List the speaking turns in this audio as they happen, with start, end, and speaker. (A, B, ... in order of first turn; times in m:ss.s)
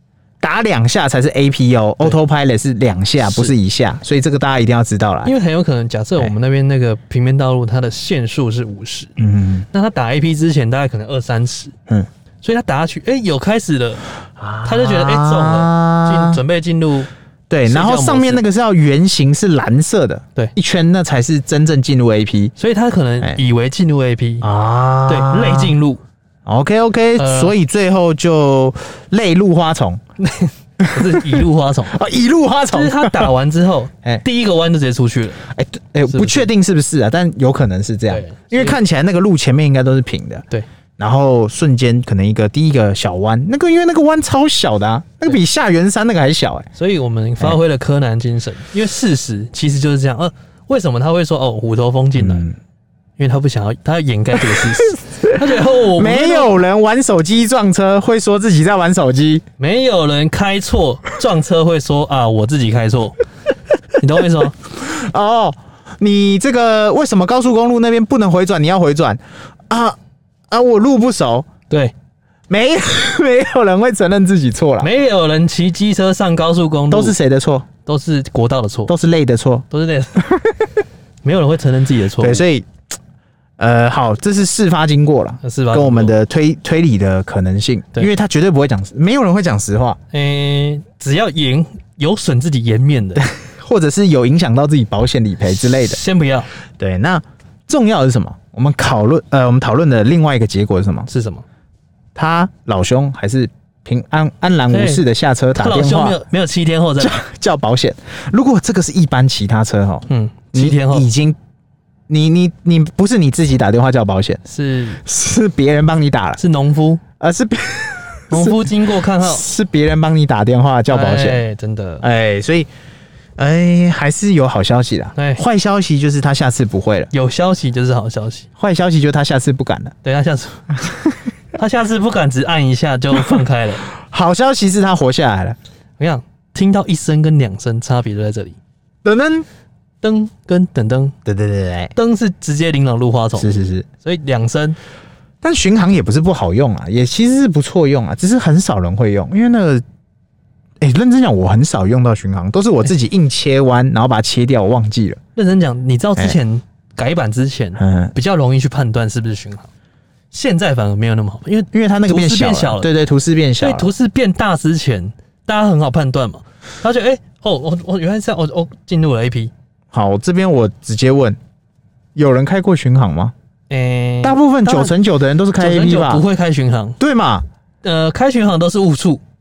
0:00.4-0:05.3 A
0:03.2-0:03.6 B
0:05.2-0:09.2 B
0:09.2-0:09.7 A
0:09.7-0:11.7 B
0:12.4-0:14.0 B
0:14.4-0:16.4 A
0:14.6-0:17.1 B
0:17.5-0:22.5 A
0:17.6-0:18.4 B
0:22.6-0:24.5 B
0:24.4-0:25.8 A
0:25.1-0:26.0 B
0:26.5-0:30.0 A
0:27.2-0:27.5 B
0:30.2-0:32.0 B
0:30.8-0:33.3 A
0:32.7-0:35.4 B
0:35.4-0:40.4 A
0:36.1-0:36.5 B
0:38.1-0:38.8 B
0:41.0-0:46.7 A
0:46.8-0:52.5 B
0:52.2-0:52.6 A
0:53.2-0:56.6 B
0:54.6-0:55.4 A
0:55.9-0:59.4 A
0:59.6-1:03.2 B
1:04.0-1:04.6 B
1:04.7-1:10.0 A
1:10.5-1:11.5 A
1:12.5-1:14.9 A
1:14.8-1:17.2 B
1:16.9-1:17.7 A
1:17.9-1:18.9 B
1:18.9-1:19.6 A
1:19.7-1:20.3 B
1:20.2-1:20.5 A
1:21.2-1:22.4 B
1:22.2-1:22.7 A
1:23.6-1:30.0 A
1:25.4-1:26.2 B
1:30.1-1:33.3 B
1:33.2-1:36.0 A
1:35.5-1:36.5 B
1:36.8-1:41.1 A
1:41.1-1:41.4 B
1:42.2-1:46.2 A
1:44.7-1:45.0 B
1:45.6-1:47.2 B
1:47.0-1:51.4 A
1:50.1-1:51.1 B
1:52.1-1:54.4 A
1:54.5-1:55.0 B
1:55.0-1:56.4 A
1:56.4-1:57.0 B
1:57.2-2:01.4 A
1:58.3-1:59.4 B
2:00.9-2:02.0 B
2:02.0-2:02.7 A
2:03.4-2:07.1 A
2:05.2-2:05.4 B
2:07.1-2:08.5 B
2:08.6-2:09.9 A
2:10.0-2:10.7 B
2:11.6-2:13.8 B
2:13.9-2:15.6 A
2:16.0-2:18.6 B
2:19.0-2:19.5 A
2:20.0-2:21.2 B
2:21.2-2:21.9 A
2:22.0-2:24.8 B
2:23.4-2:23.9 A
2:25.4-2:29.8 A
2:30.8-2:35.2 A
2:35.4-2:39.7 B
2:37.8-2:38.1 A
2:40.3-2:42.9 B
2:41.7-2:43.9 A
2:43.6-2:49.5 B
2:49.9-2:51.4 A
2:52.2-2:53.3 A
2:53.7-2:54.9 B
2:54.2-2:56.2 A
2:55.6-2:57.0 B
2:57.0-2:57.5 A
2:57.8-2:59.2 B